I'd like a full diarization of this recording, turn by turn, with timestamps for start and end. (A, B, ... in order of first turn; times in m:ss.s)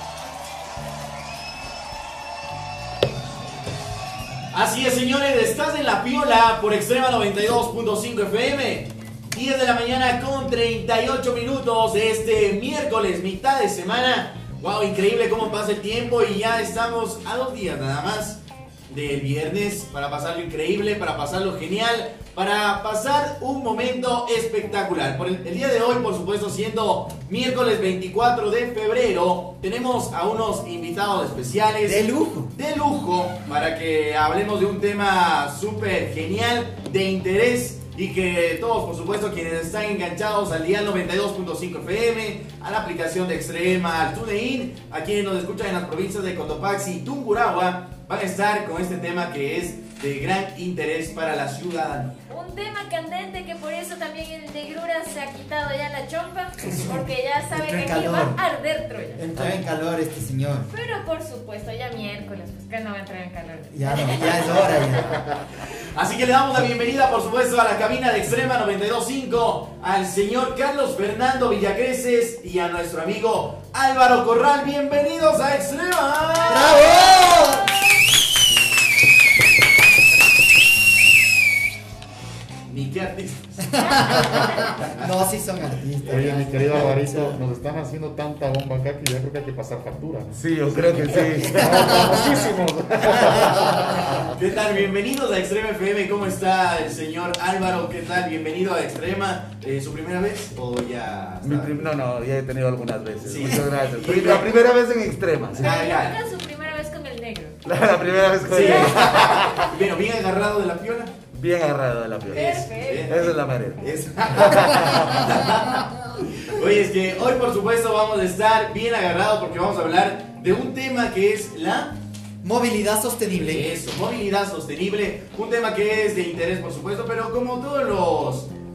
0:04.5-0:52.2 A
0:31.8-0:32.5 B
0:52.3-0:59.2 C
0:56.6-0:58.4 B
0:59.1-1:00.7 B
1:00.7-1:04.9 C
1:03.7-1:05.2 B
1:05.7-1:16.9 A
1:16.5-1:17.7 B
1:22.6-1:25.1 A
1:23.7-1:27.3 B
1:26.0-1:30.3 D
1:30.3-1:32.4 E
1:30.9-1:34.3 D
1:31.6-1:32.2 B
1:34.2-1:41.9 A
1:41.4-1:45.7 E
1:43.2-1:44.5 A
1:45.6-1:46.2 A
1:45.6-1:47.6 C
1:47.6-1:49.7 E
1:48.4-1:51.1 A
1:48.9-1:49.4 C
1:51.3-1:55.3 E
1:52.3-1:53.3 C
1:52.3-1:53.2 A
1:53.8-2:02.0 A
2:02.4-2:03.7 B
2:03.3-2:08.5 A